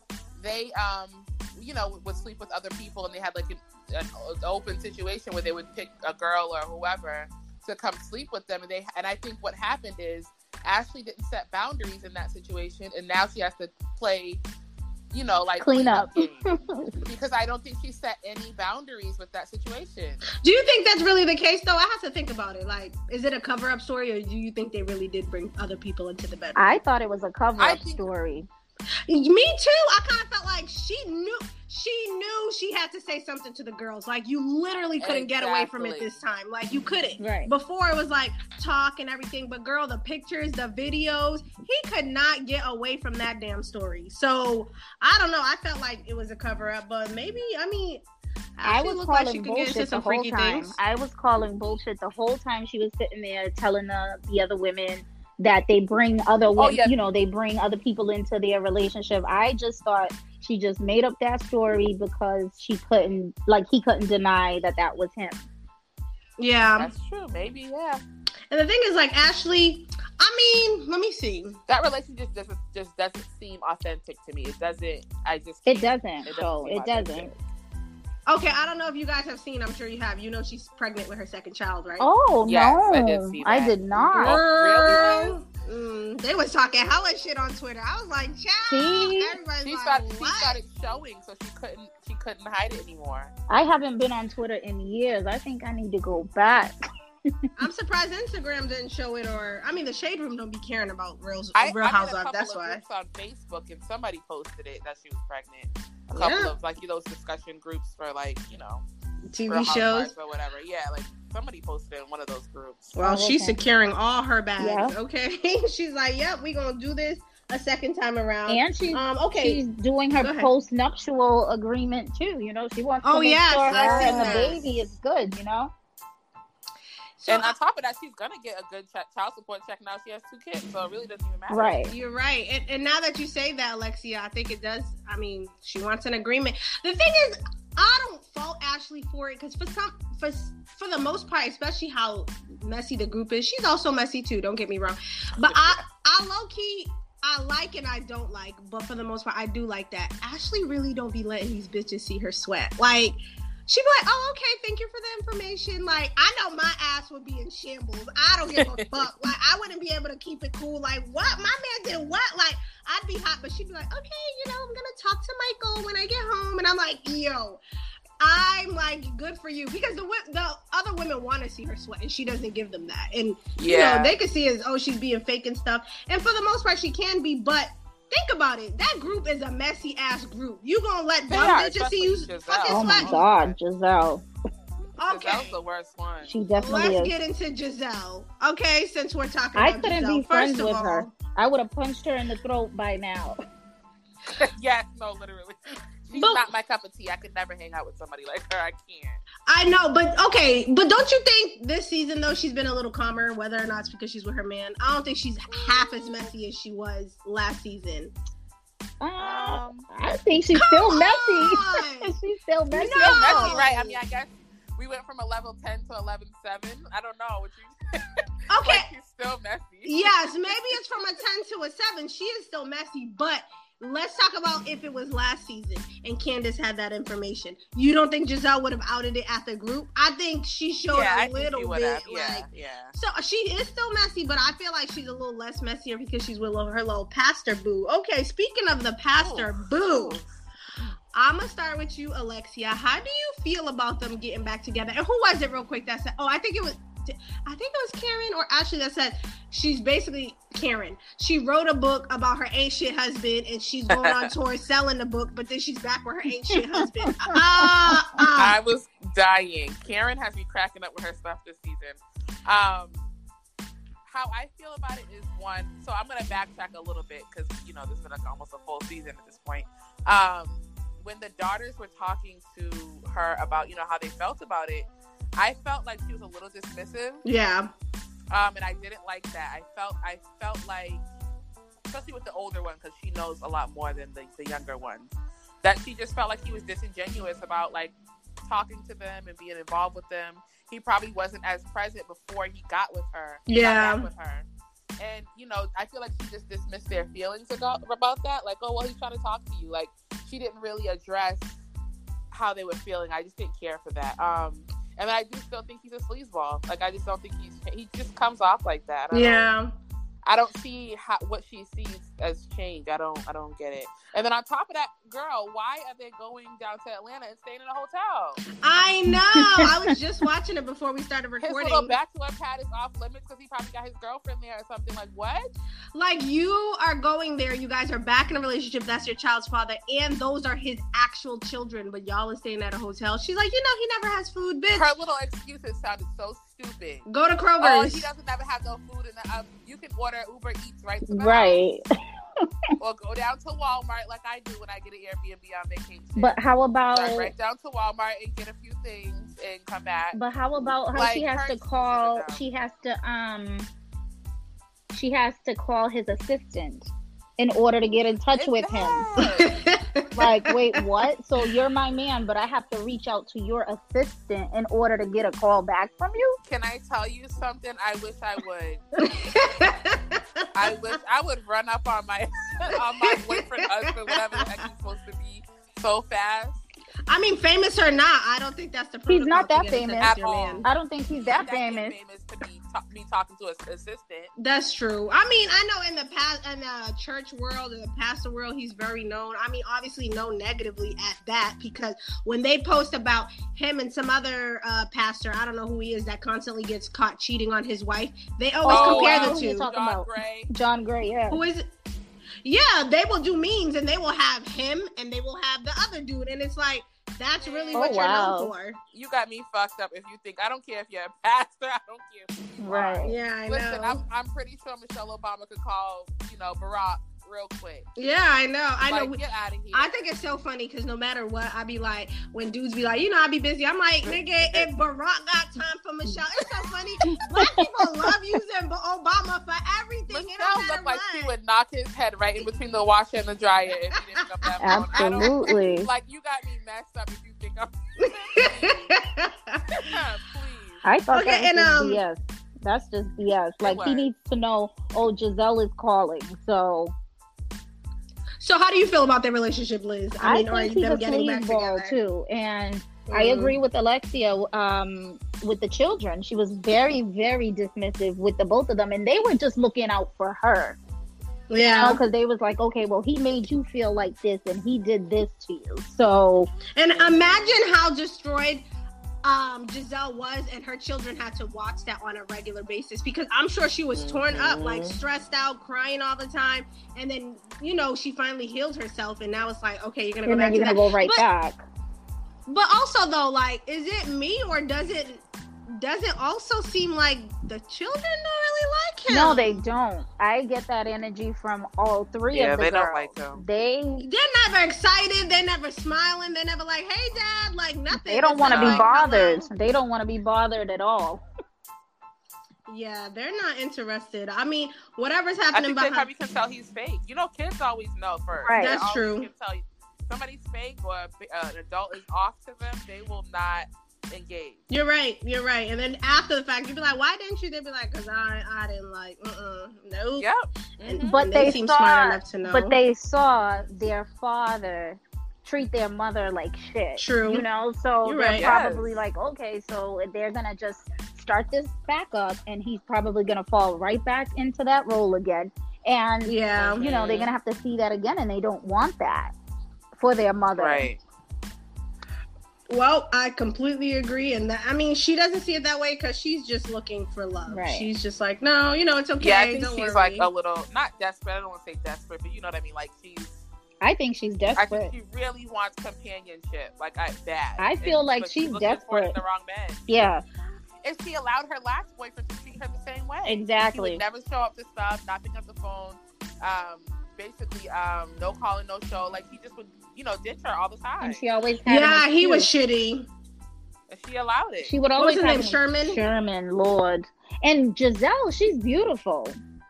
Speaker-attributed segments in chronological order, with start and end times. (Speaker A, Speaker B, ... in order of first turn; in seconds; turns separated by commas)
Speaker A: 0.4-14.4, Speaker A: 15.1-16.5, Speaker B: 15.6-16.9, Speaker A: 17.0-20.2, Speaker C: 20.4-26.8, Speaker B: 26.6-28.5, Speaker A: 27.6-28.0, Speaker C: 29.1-48.0, Speaker A: 35.0-36.2, Speaker B: 37.2-37.5, Speaker C: 48.6-50.8, Speaker B: 48.6-65.4, Speaker A: 56.6-56.9, Speaker C: 66.4-66.9, Speaker A: 66.8-68.0, Speaker C: 68.5-71.6, Speaker A: 71.7-77.3, Speaker B: 75.7-77.3, Speaker C: 78.3-82.1, Speaker B: 82.0-84.4, Speaker A: 82.5-85.3, Speaker C: 84.2-90.6, Speaker B: 88.7-89.3, Speaker A: 89.6-93.3, Speaker B: 93.5-96.7, Speaker C: 97.6-102.8, Speaker A: 101.5-108.8, Speaker C: 106.1-106.5, Speaker C: 109.3-110.1, Speaker A: 109.5-113.0, Speaker C: 113.0-119.6, Speaker B: 113.0-113.6, Speaker B: 114.6-114.9, Speaker B: 118.5-125.7, Speaker C: 120.2-120.5, Speaker C: 123.0-124.6, Speaker A: 123.7-124.6, Speaker C: 127.2-127.6, Speaker A: 127.3-131.8, Speaker B: 131.5-131.9, Speaker C: 131.9-167.6, Speaker A: 145.4-145.8, Speaker A: 158.6-159.0, Speaker C: 168.2-183.2, Speaker A: 173.6-174.2, Speaker A: 181.3-183.6, Speaker B: 182.7-184.2, Speaker C: 185.0-185.5, Speaker A: 185.1-186.3, Speaker B: 186.2-187.1, Speaker C: 186.6-191.1, Speaker B: 189.6-193.4, Speaker A: 194.3-199.2, Speaker C: 196.1-196.5, Speaker C: 199.5-208.1, Speaker B: 209.0-213.6, Speaker A: 209.2-209.9, Speaker C: 210.5-212.1, Speaker C: 212.7-214.0, Speaker A: 212.9-220.9, Speaker C: 218.5-218.9, Speaker C: 219.9-240.2, Speaker A: 230.9-232.9, Speaker A: 239.2-240.3, Speaker C: 241.1-258.6, Speaker A: 253.9-254.3, Speaker B: 256.6-257.6, Speaker A: 258.4-263.1, Speaker A: 264.0-277.2, Speaker C: 277.2-277.7, Speaker A: 278.3-281.0, Speaker A: 281.9-294.4, Speaker C: 293.5-294.1, Speaker A: 295.0-301.6, Speaker A: 302.3-309.5, Speaker C: 309.1-309.7, Speaker A: 310.2-318.4, Speaker C: 318.6-321.9, Speaker B: 319.1-319.7, Speaker A: 321.4-325.5, Speaker C: 325.9-334.9, Speaker A: 334.7-337.1, Speaker C: 337.1-338.1, Speaker A: 337.6-341.6, Speaker B: 341.1-341.8, Speaker A: 342.8-346.4, Speaker B: 346.2-347.3, Speaker A: 346.9-350.2, Speaker B: 350.1-353.7, Speaker A: 350.9-352.4, Speaker B: 354.9-359.0, Speaker A: 358.4-359.5, Speaker C: 359.2-360.8, Speaker B: 360.1-366.4, Speaker A: 366.4-368.8, Speaker C: 369.0-370.7, Speaker A: 370.5-376.6, Speaker C: 372.7-374.5, Speaker C: 377.1-380.6, Speaker B: 379.1-381.9, Speaker A: 380.0-380.7, Speaker A: 381.2-384.3, Speaker C: 384.4-399.7, Speaker B: 398.6-401.4, Speaker A: 398.7-400.5, Speaker C: 401.3-401.7, Speaker C: 402.4-408.8, Speaker A: 407.4-408.0, Speaker B: 407.7-408.5, Speaker A: 408.9-417.9, Speaker B: 412.6-413.1, Speaker C: 413.0-414.0, Speaker C: 418.0-419.2, Speaker A: 418.9-420.1, Speaker C: 419.7-431.3, Speaker A: 424.0-424.7, Speaker B: 427.1-427.6, Speaker A: 430.1-439.0, Speaker C: 434.4-435.3, Speaker B: 434.6-435.9, Speaker C: 438.0-439.9, Speaker A: 439.7-440.9, Speaker B: 440.8-446.9, Speaker C: 441.1-442.0, Speaker A: 443.6-444.1, Speaker C: 448.4-451.9, Speaker B: 450.2-460.8, Speaker C: 453.1-453.6, Speaker C: 461.5-462.0, Speaker B: 461.8-466.5, Speaker C: 466.8-468.6, Speaker A: 466.9-467.6, Speaker C: 469.2-481.2, Speaker A: 473.9-475.0, Speaker B: 480.2-481.6, Speaker C: 482.5-489.6, Speaker B: 489.1-494.1, Speaker A: 492.3-493.4, Speaker C: 494.0-499.5, Speaker B: 497.9-501.2, Speaker A: 498.5-498.9, Speaker C: 502.7-506.1, Speaker A: 505.5-514.6, Speaker B: 508.4-508.8, Speaker C: 508.5-509.3, Speaker C: 514.7-520.3, Speaker A: 520.2-521.1, Speaker C: 520.8-522.8, Speaker B: 521.0-539.3, Speaker C: 527.0-527.4, Speaker C: 528.0-528.5, Speaker A: 528.4-528.9, Speaker C: 536.2-536.9, Speaker A: 536.5-537.3, Speaker B: 540.0-540.9, Speaker A: 540.6-541.0, Speaker C: 542.7-550.3, Speaker B: 547.5-547.9, Speaker A: 549.2-553.4, Speaker B: 553.8-554.9, Speaker A: 554.5-559.8, Speaker B: 557.6-559.2, Speaker B: 559.9-560.2, Speaker A: 560.8-571.2, Speaker B: 563.3-564.0, Speaker B: 571.0-572.5, Speaker C: 571.6-573.1, Speaker A: 573.9-574.7, Speaker B: 574.6-579.4, Speaker C: 575.0-576.0